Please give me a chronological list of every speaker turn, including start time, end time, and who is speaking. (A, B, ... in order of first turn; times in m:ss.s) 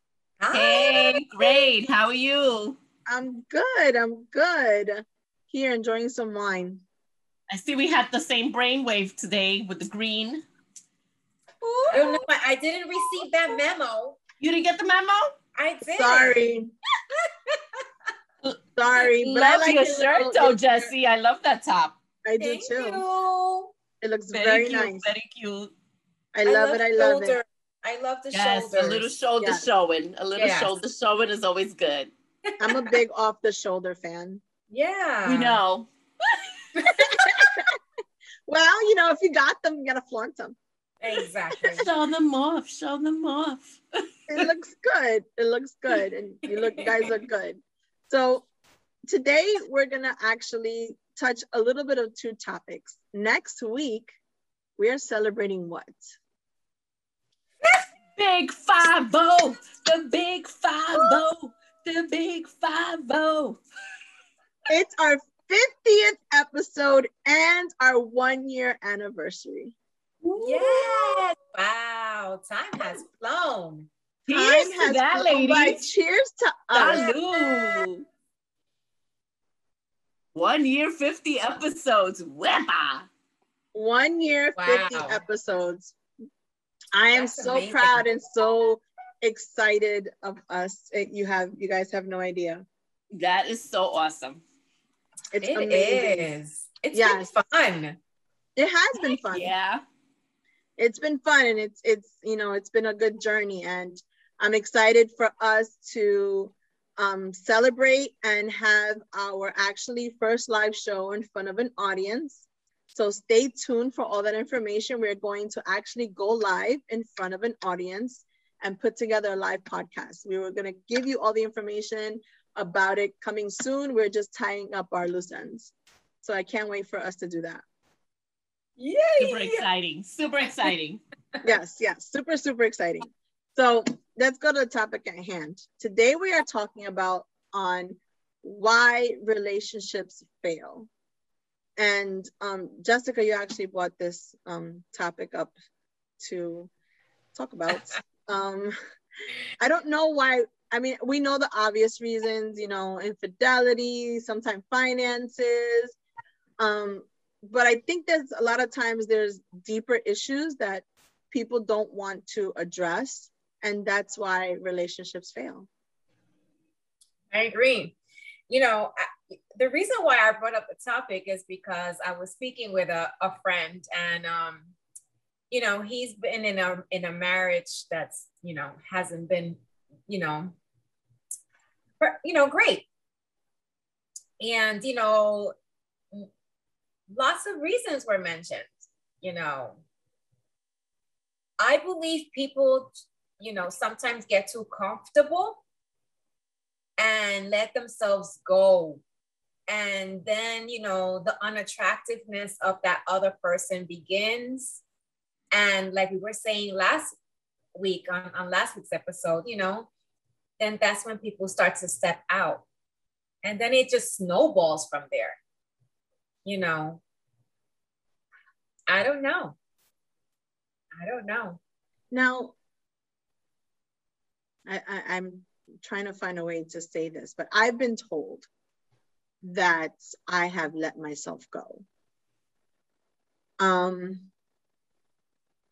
0:00.4-0:01.6 A
0:00.5-0:02.8 B
0:03.1-0:06.8 C
0:07.5-0:10.4 B
0:11.6-0:14.2 A
0:11.9-0:12.2 C
0:14.4-0:15.3 B
0:15.6-0:16.5 A
0:15.9-0:16.7 C
0:18.4-0:22.0 B
0:18.8-0:20.9 C
0:22.2-0:23.0 C
0:22.4-0:23.7 A
0:24.0-0:25.1 C
0:24.3-0:25.7 B
0:26.3-0:27.4 C
0:26.4-0:29.1 A
0:28.3-0:32.1 B
0:29.4-0:29.6 C
0:30.3-0:30.8 A
0:32.5-0:32.8 A
0:32.6-0:34.4 C
0:34.7-0:35.6 A
0:35.2-0:36.4 B
0:36.8-0:37.3 A
0:37.1-0:37.7 C
0:38.5-0:40.6 C
0:41.0-0:41.8 A
0:41.8-0:44.5 B
0:44.3-0:48.4 C
0:46.5-0:47.0 A
0:49.0-0:54.1 C
0:54.8-0:56.1 C
0:58.2-1:03.6 B
1:04.7-1:09.7 C
1:10.2-1:11.2 B
1:10.4-1:13.9 A
1:14.3-1:15.8 B
1:14.3-1:17.1 C
1:16.7-1:18.0 B
1:16.8-1:17.8 A
1:20.3-1:23.1 B
1:23.7-1:25.9 C
1:24.6-1:25.2 A
1:26.9-1:32.6 C
1:27.1-1:28.0 A
1:33.1-1:34.4 B
1:35.3-1:36.3 C
1:35.4-1:38.0 A
1:36.9-1:37.3 C
1:38.6-1:39.5 C
1:39.3-1:39.8 B
1:40.8-2:07.6 C
2:08.8-2:09.6 A
2:09.2-2:11.0 B
2:11.4-2:20.9 C
2:21.8-2:25.5 C
2:26.2-2:26.7 C
2:27.3-2:28.7 C
2:29.6-2:35.9 C
2:36.6-2:45.7 C
2:47.3-2:48.0 A
2:48.5-2:54.7 A
2:55.5-3:00.6 A
3:02.0-3:02.9 A
3:04.4-3:05.5 A
3:07.1-3:09.8 A
3:11.6-3:15.6 A
3:17.0-3:19.0 A
3:19.7-3:24.8 A
3:25.5-3:27.1 A
3:27.7-3:29.9 A
3:30.6-3:32.6 A
3:33.4-3:35.4 A
3:36.4-3:37.0 A
3:38.9-3:39.6 A
3:41.0-3:41.6 A
3:42.1-3:42.5 C
3:44.6-3:48.5 C
3:49.4-3:51.8 C
3:53.6-3:54.3 C